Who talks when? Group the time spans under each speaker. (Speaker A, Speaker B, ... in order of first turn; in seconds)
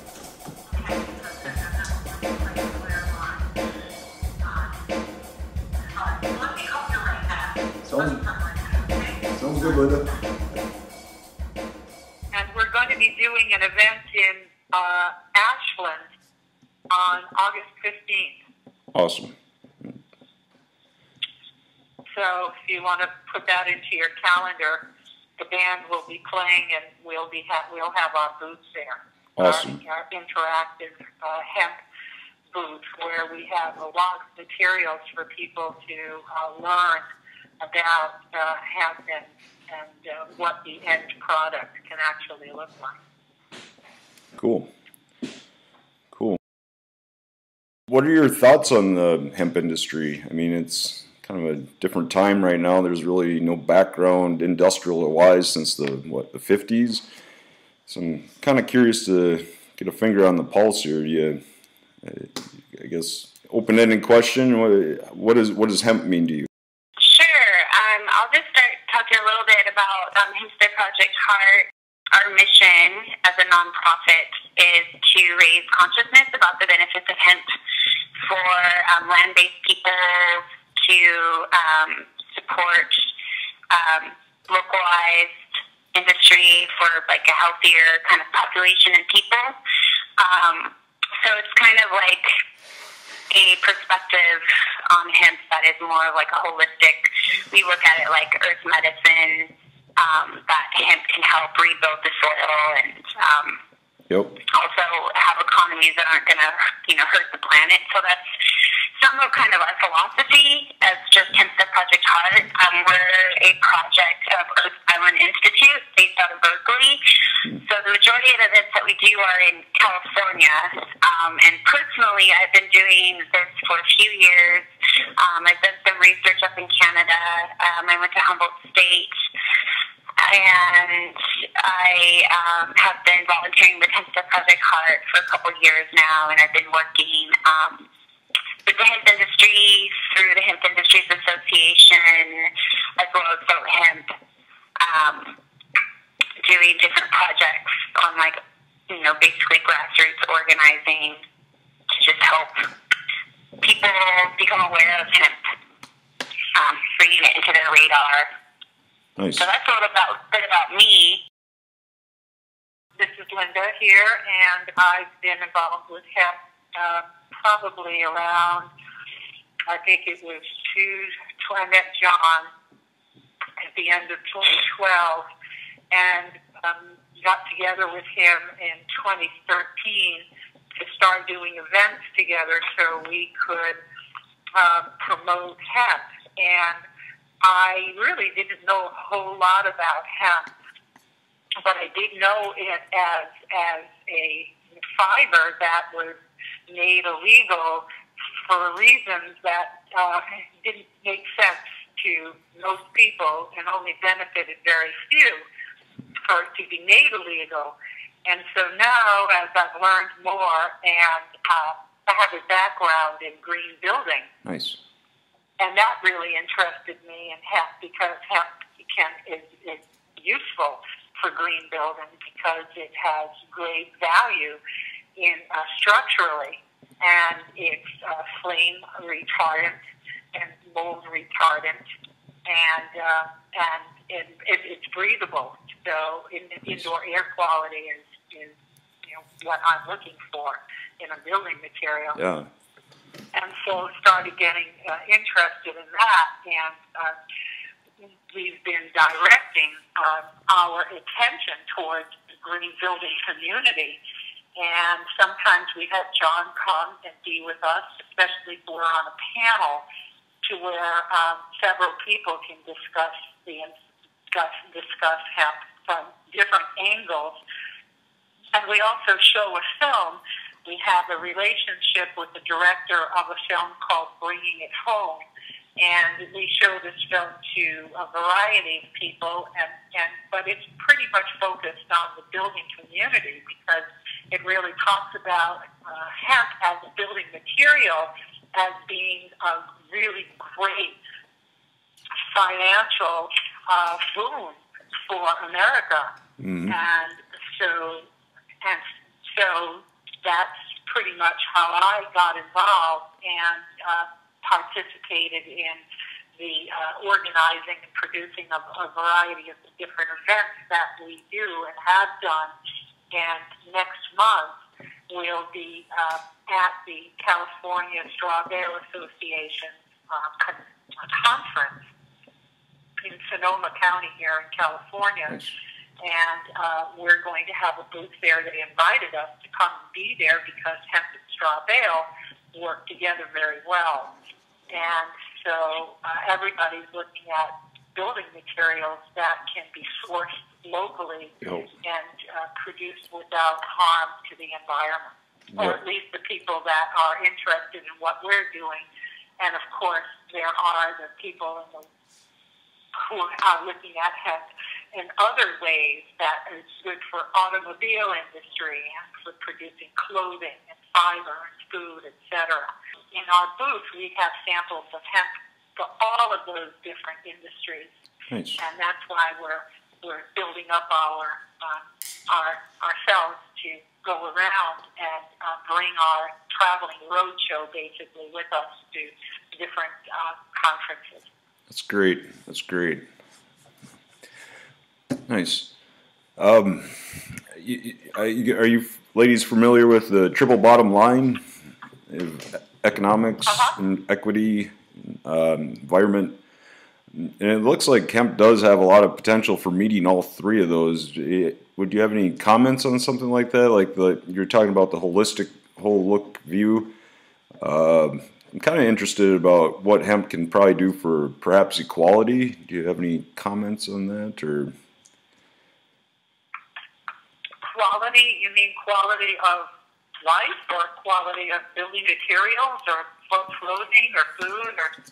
Speaker A: 0.7-3.5, 4.4-4.8, 5.9-9.8, 12.3-16.1, 16.9-18.4, 22.1-24.8, 25.4-31.8, 32.5-37.1, 37.6-43.0, 163.0-168.7, 169.7-172.5, 173.6-175.3, 175.9-180.2, 180.8-183.8, 184.6-186.8, 187.4-190.5, 191.6-197.8, 198.4-205.4, 206.2-214.3, 215.6-224.6, 225.2-229.8, 230.3-231.8, 232.4-242.2, 243.3-247.2, 248.0-254.0, 254.6-259.9, 260.4-263.8, 264.3-267.4, 268.5-275.2, 275.8-291.0, 292.3-296.1, 296.7-298.1, 298.6-305.8, 306.4-312.5, 313.1-314.6, 315.1-321.9, 323.0-325.5, 326.0-334.1, 334.7-348.9, 349.4-351.9, 352.9-367.9, 368.6-381.3, 393.5-393.8, 417.7-419.7, 420.2-424.9
Speaker B: 7.9-8.2, 9.4-10.1, 18.9-20.0, 29.4-29.8, 44.4-44.7, 46.1-46.4, 47.9-57.0, 57.9-61.4, 62.0-66.5, 104.1-104.3, 159.2-159.4, 214.4-214.8, 242.2-242.5, 296.4-296.7, 368.3-368.6, 381.7-383.1, 385.3-385.7, 386.4-391.4, 392.1-396.4, 397.1-406.9, 407.6-414.7
Speaker C: 67.0-77.5, 78.2-83.1, 83.7-85.4, 85.9-89.6, 90.2-92.4, 93.3-103.6, 104.5-129.3, 130.2-137.9, 138.7-144.2, 144.8-145.4, 146.4-151.2, 151.9-152.7, 153.6-155.5, 156.5-158.3, 159.4-161.2